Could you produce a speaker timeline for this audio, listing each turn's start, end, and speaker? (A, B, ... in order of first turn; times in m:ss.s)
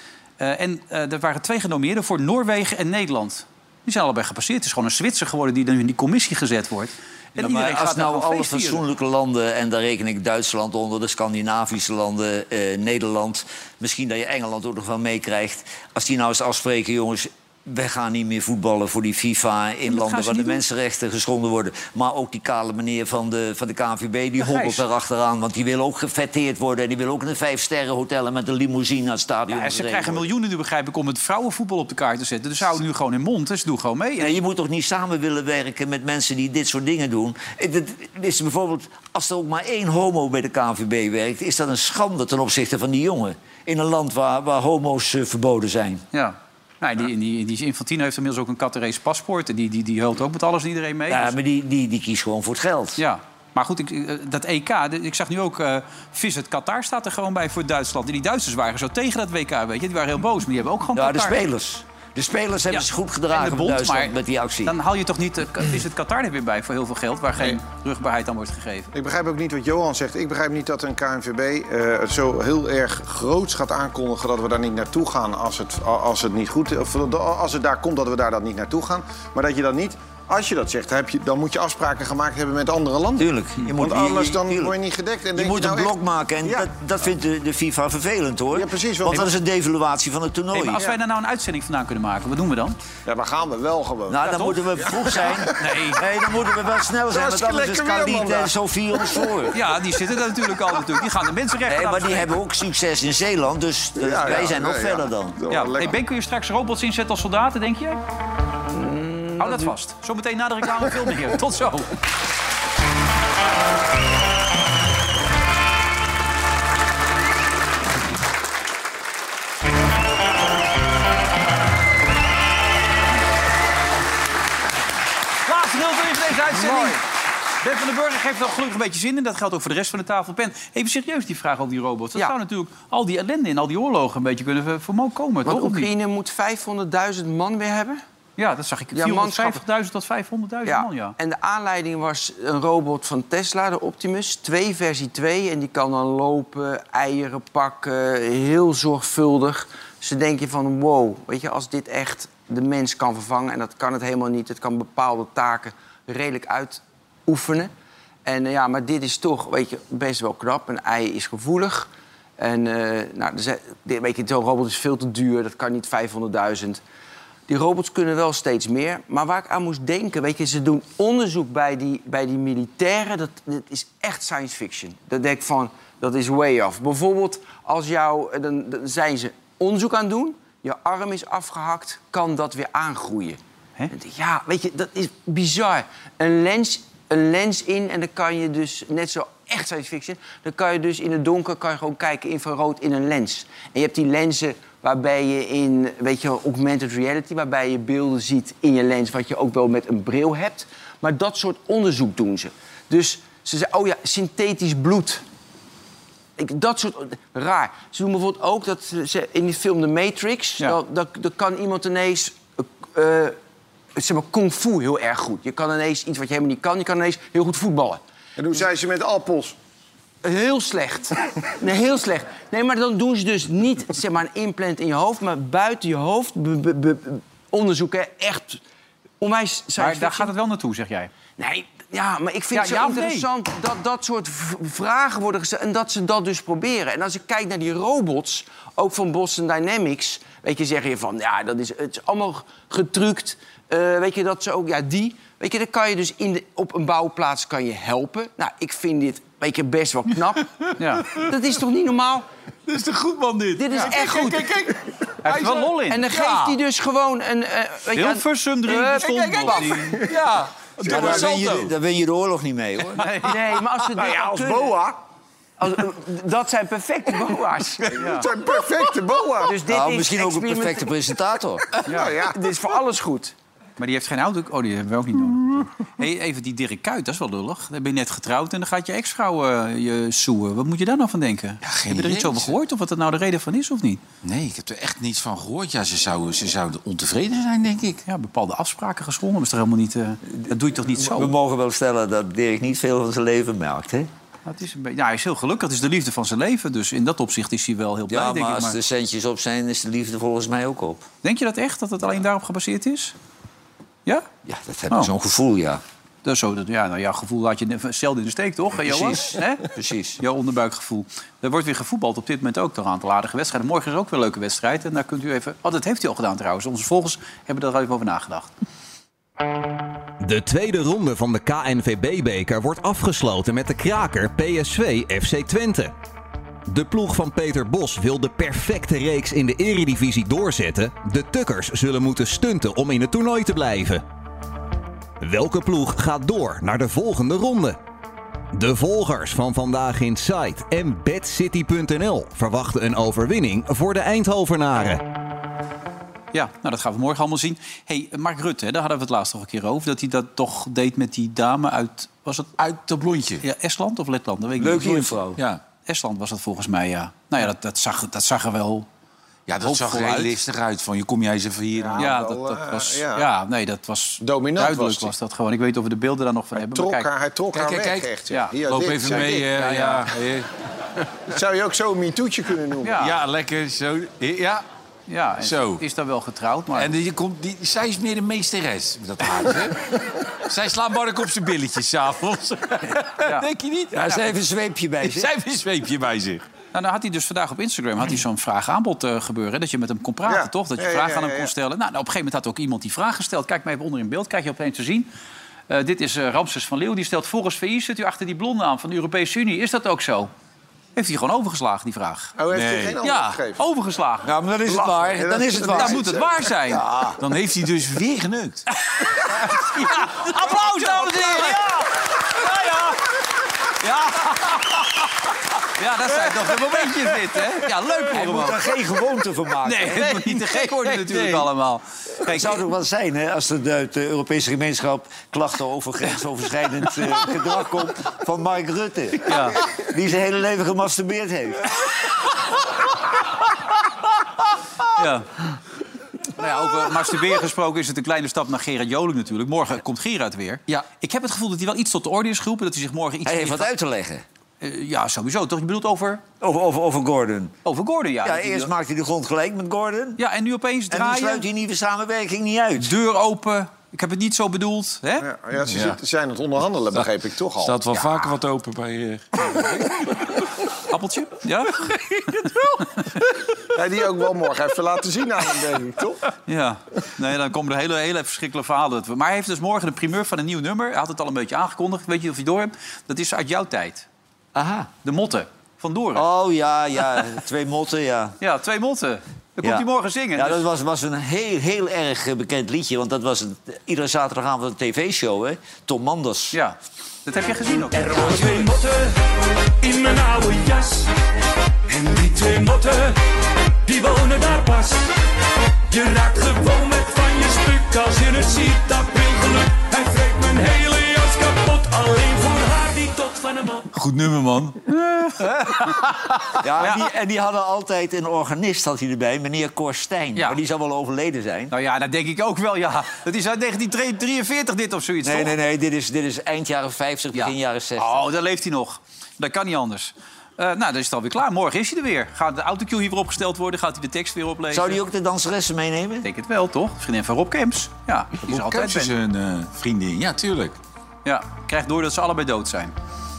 0:00.4-0:08.8 A
0:07.4-0:30.3 B
0:19.8-0:20.6 A
0:24.4-0:24.8 A
0:29.5-0:34.4 A
0:34.2-0:46.0 B
0:46.1-0:51.4 A
0:51.1-0:53.0 B
0:53.0-1:01.4 A
1:00.9-1:04.8 B
1:02.7-1:08.9 A
1:08.9-1:26.7 C
1:23.2-1:24.8 B
1:25.3-1:30.8 B
1:28.5-1:29.3 C
1:30.5-1:32.8 A
1:33.0-1:35.6 C
1:34.1-1:39.6 B
1:34.2-1:36.0 A
1:37.1-1:39.3 C
1:39.5-1:42.4 A
1:41.7-1:45.4 B
1:44.0-1:46.0 C
1:45.5-1:48.0 A
1:48.7-1:49.7 D
1:49.4-1:51.9 A
2:05.4-2:07.0 A
2:06.5-2:07.0 D
2:07.6-2:15.9 A
2:15.4-2:18.0 D
2:18.4-2:21.1 A
2:18.9-2:19.6 D
2:20.6-2:37.7 D
2:38.2-2:46.8 D
2:47.5-3:03.4 D
3:03.9-3:25.2 D
3:26.4-3:33.4 D
3:34.0-3:38.0 D
3:38.4-3:39.5 C
3:40.2-3:48.6 D
3:49.2-3:50.3 D
3:49.8-3:51.1 A
3:51.4-4:10.5 D
3:52.5-3:53.3 A
4:10.8-4:11.1 A
4:11.1-4:12.2 D
4:12.7-4:16.6 E
4:13.6-4:14.5 D
4:15.2-4:16.1 A
4:15.9-4:19.8 D
4:17.9-4:20.0 A
4:19.1-4:21.7 E
4:20.8-4:21.4 C
4:20.8-4:23.1 B
4:22.9-4:23.4 A
4:23.2-4:24.8 D
4:23.9-4:25.0 C
4:25.6-4:28.0 D
4:27.8-4:28.3 A
4:27.9-4:29.6 C
4:29.4-4:30.9 D
4:29.6-4:31.6 B
4:31.8-4:32.1 A
4:31.9-4:32.4 C
4:32.2-4:33.3 D
4:33.8-4:44.0 A
4:41.6-4:42.5 E
4:44.2-4:48.0 E
4:48.0-4:51.3 A
4:50.4-4:54.1 B
4:54.4-4:58.8 A
4:58.1-5:01.1 B
5:01.2-5:03.1 A
5:04.4-5:05.8 B
5:06.2-5:09.7 A
5:08.8-5:10.2 B
5:10.2-5:18.5 A
5:20.2-5:25.9 F
5:26.7-5:34.0 F
5:35.2-5:37.8 F
5:38.5-5:45.0 F
5:46.3-5:52.5 A
5:52.6-5:53.4 E
5:53.4-5:55.3 A
5:54.6-5:55.4 B
5:55.4-5:55.6 E
5:55.8-5:58.9 A
5:59.5-6:02.2 E
5:59.6-6:00.4 A
6:01.8-6:03.2 C
6:02.0-6:07.1 A
6:04.2-6:05.1 C
6:06.5-6:09.5 C
6:07.5-6:08.1 E
6:08.3-6:08.5 A
6:08.6-6:10.5 E
6:09.1-6:10.1 A
6:11.3-6:13.0 C
6:12.8-6:13.1 A
6:13.0-6:14.6 E
6:15.1-6:16.9 A
6:15.4-6:15.8 E
6:16.7-6:24.2 E
6:23.2-6:23.5 A
6:23.9-6:25.3 B
6:25.0-6:26.4 E
6:26.7-6:35.1 A
6:30.2-6:31.5 C
6:35.7-6:40.3 A
6:41.0-6:42.3 A
6:42.4-6:43.6 C
6:42.5-6:43.4 E
6:43.0-6:44.3 A
6:44.2-6:46.0 B
6:44.6-6:46.5 C
6:45.7-6:46.8 A
6:46.7-6:48.6 E
6:48.9-6:53.0 A
6:50.1-6:51.6 E
6:53.8-6:54.8 A
6:55.7-6:58.7 A
6:56.5-6:56.8 E
6:58.0-7:00.2 B
6:59.6-7:02.6 A
6:59.9-7:01.4 E
7:02.2-7:11.8 B
7:09.2-7:09.6 A
7:14.9-7:15.3 A
7:16.4-7:23.7 A
7:23.2-7:24.2 B
7:24.6-7:26.2 A
7:26.4-7:27.5 B
7:27.6-7:28.7 A
7:28.2-7:30.2 B
7:30.2-7:31.4 A
7:30.9-7:32.9 B
7:32.8-7:35.2 A
7:35.2-7:37.9 C
7:35.6-7:36.0 E
7:37.6-7:40.0 E
7:40.8-7:42.5 A
7:43.7-7:46.2 C
7:46.5-7:54.1 A
7:54.5-7:54.9 B
7:55.0-7:56.2 A
7:56.1-7:58.4 B
7:58.4-8:00.6 A
7:59.6-8:06.6 B
8:06.5-8:08.6 A
8:07.9-8:09.2 G
8:09.8-8:11.1 G
8:11.9-8:13.2 G
8:13.8-8:15.1 G
8:15.9-8:23.8 G
8:23.9-8:24.8 E
8:24.9-8:26.1 A
8:26.1-8:26.3 E
8:26.6-8:31.7 B
8:26.8-8:27.0 A
8:31.7-8:35.6 A
8:35.2-8:38.2 B
8:37.3-8:45.0 A
8:44.7-8:46.3 B
8:46.2-8:49.1 A
8:48.4-8:50.8 E
8:51.2-8:52.9 A